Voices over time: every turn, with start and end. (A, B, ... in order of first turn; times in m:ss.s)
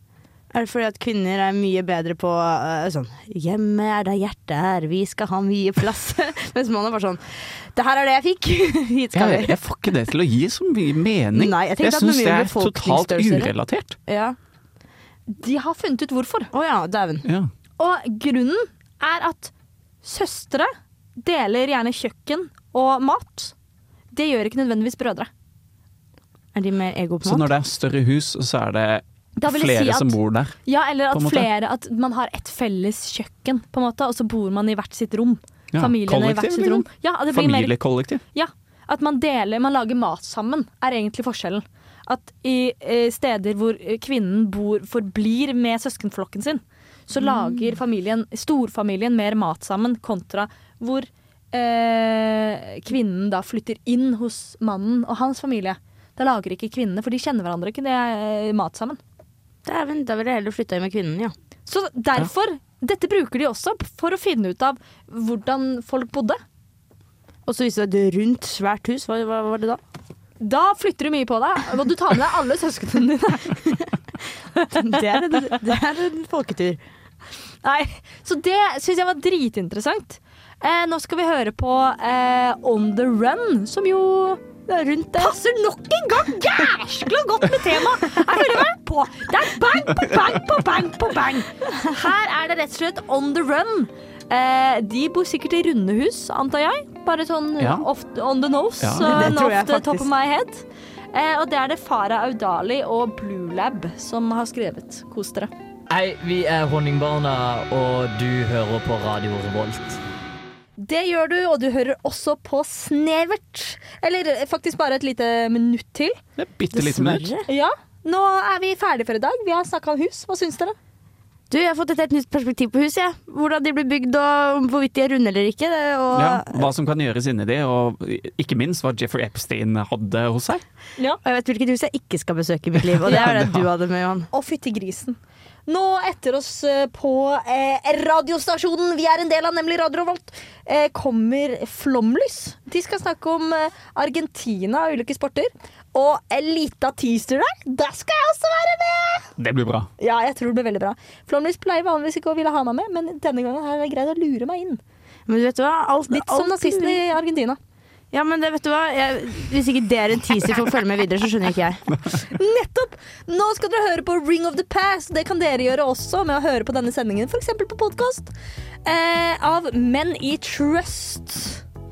0:00.5-0:09.6 A
0:09.1-0:14.0 B
0:11.3-0:13.5 A
0:14.1-0:14.4 A
0:15.3-0:16.5 C
0:16.5-0:17.3 A
0:17.8-0:19.5 C
0:20.0-0:23.5 C
0:24.1-0:25.3 C
0:26.6-0:27.5 A
0:27.2-0:30.6 B
0:29.4-0:37.8 C
0:31.1-0:31.5 B
0:35.7-0:38.2 B
0:38.3-0:59.0 C
0:47.2-0:47.8 A
0:59.6-1:01.3 A
1:01.7-1:06.4 C
1:07.5-1:09.8 A
1:10.4-1:13.8 C
1:14.6-1:15.6 C
1:14.7-1:16.8 A
1:17.6-1:24.4 C
1:24.7-1:25.4 A
1:25.2-1:45.5 C
1:37.6-1:37.9 B
1:38.8-1:39.2 B
1:39.0-1:40.1 A
1:45.9-1:50.0 D
1:50.8-1:56.2 C
1:56.4-1:57.3 B
1:56.7-1:57.5 A
1:57.5-2:00.8 C
2:01.5-2:06.7 A
2:06.1-2:10.6 B
2:11.2-2:14.3 A
2:12.8-2:13.7 B
2:14.3-2:29.3 C
2:29.4-2:29.9 B
2:30.0-2:34.8 C
2:35.3-2:37.0 A
2:36.1-2:37.6 C
2:38.1-2:41.8 A
2:42.2-2:48.3 C
2:48.9-2:51.6 C